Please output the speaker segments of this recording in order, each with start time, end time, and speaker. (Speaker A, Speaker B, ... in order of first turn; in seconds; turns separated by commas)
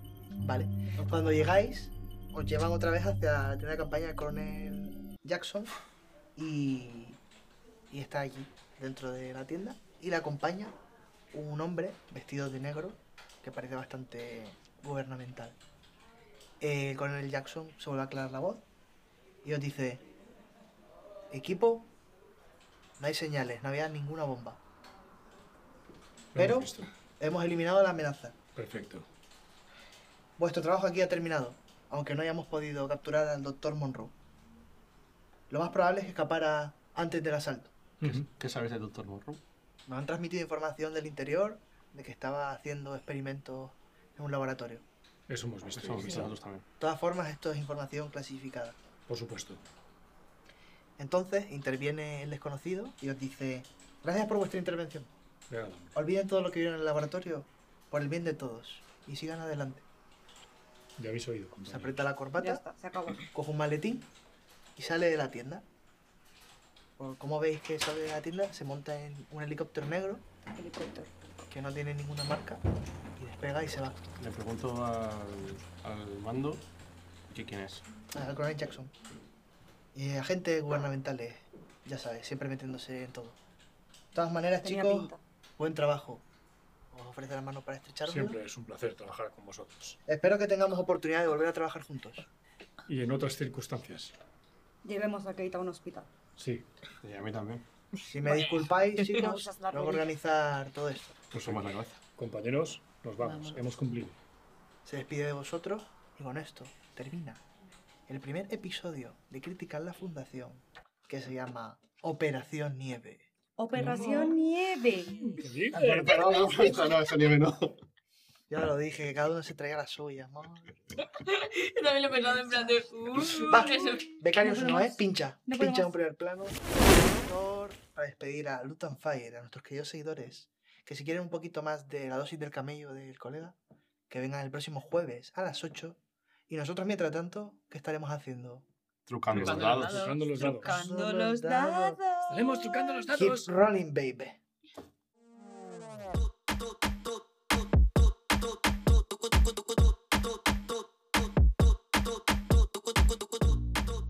Speaker A: 0.4-5.7, Speaker A: 6.3-7.2, Speaker A: 7.9-10.7, Speaker A: 11.3-15.6, Speaker A: 16.6-18.6, Speaker A: 19.4-20.0, Speaker A: 21.3-21.9, Speaker A: 23.0-24.6, Speaker B: 26.3-26.9, Speaker A: 26.3-28.3, Speaker B: 28.6-29.1, Speaker A: 30.4-34.1, Speaker A: 35.5-37.8, Speaker B: 38.0-38.3, Speaker C: 38.0-39.4, Speaker A: 39.9-44.9, Speaker B: 45.3-46.3, Speaker C: 45.8-46.6, Speaker A: 46.8-48.8, Speaker B: 49.1-49.6, Speaker A: 51.0-55.1, Speaker B: 55.5-55.9, Speaker A: 55.9-59.8, Speaker B: 61.0-62.0, Speaker A: 61.6-62.6, Speaker D: 62.4-63.3, Speaker A: 63.3-64.1, Speaker A: 64.8-65.6, Speaker A: 67.0-70.2, Speaker D: 70.5-71.1, Speaker A: 71.5-72.6, Speaker A: 73.2-74.1, Speaker C: 74.2-76.7, Speaker C: 77.3-77.8, Speaker A: 78.1-78.9, Speaker A: 79.9-83.4, Speaker A: 84.1-86.2, Speaker D: 84.6-85.2, Speaker A: 86.9-88.4, Speaker B: 88.1-90.0, Speaker A: 90.1-92.3, Speaker B: 92.9-94.1, Speaker D: 94.8-96.1, Speaker B: 96.4-96.7, Speaker C: 97.0-97.6, Speaker A: 98.1-101.2, Speaker E: 98.2-98.6, Speaker D: 99.1-100.1, Speaker C: 101.3-102.0, Speaker B: 102.2-104.2, Speaker E: 103.2-103.7, Speaker A: 104.8-107.4, Speaker A: 108.1-113.3, Speaker D: 113.6-115.4, Speaker B: 113.7-114.3, Speaker E: 113.9-114.4, Speaker B: 115.4-116.2, Speaker C: 115.7-117.8, Speaker A: 118.5-120.8, Speaker E: 121.0-124.2, Speaker A: 123.4-133.6, Speaker D: 123.4-125.9, Speaker A: 134.1-138.7, Speaker C: 139.1-140.1, Speaker E: 139.3-140.7, Speaker B: 139.4-140.7, Speaker A: 140.4-142.0, Speaker D: 140.5-142.8, Speaker B: 142.3-143.5, Speaker A: 143.1-144.4, Speaker A: 152.8-153.3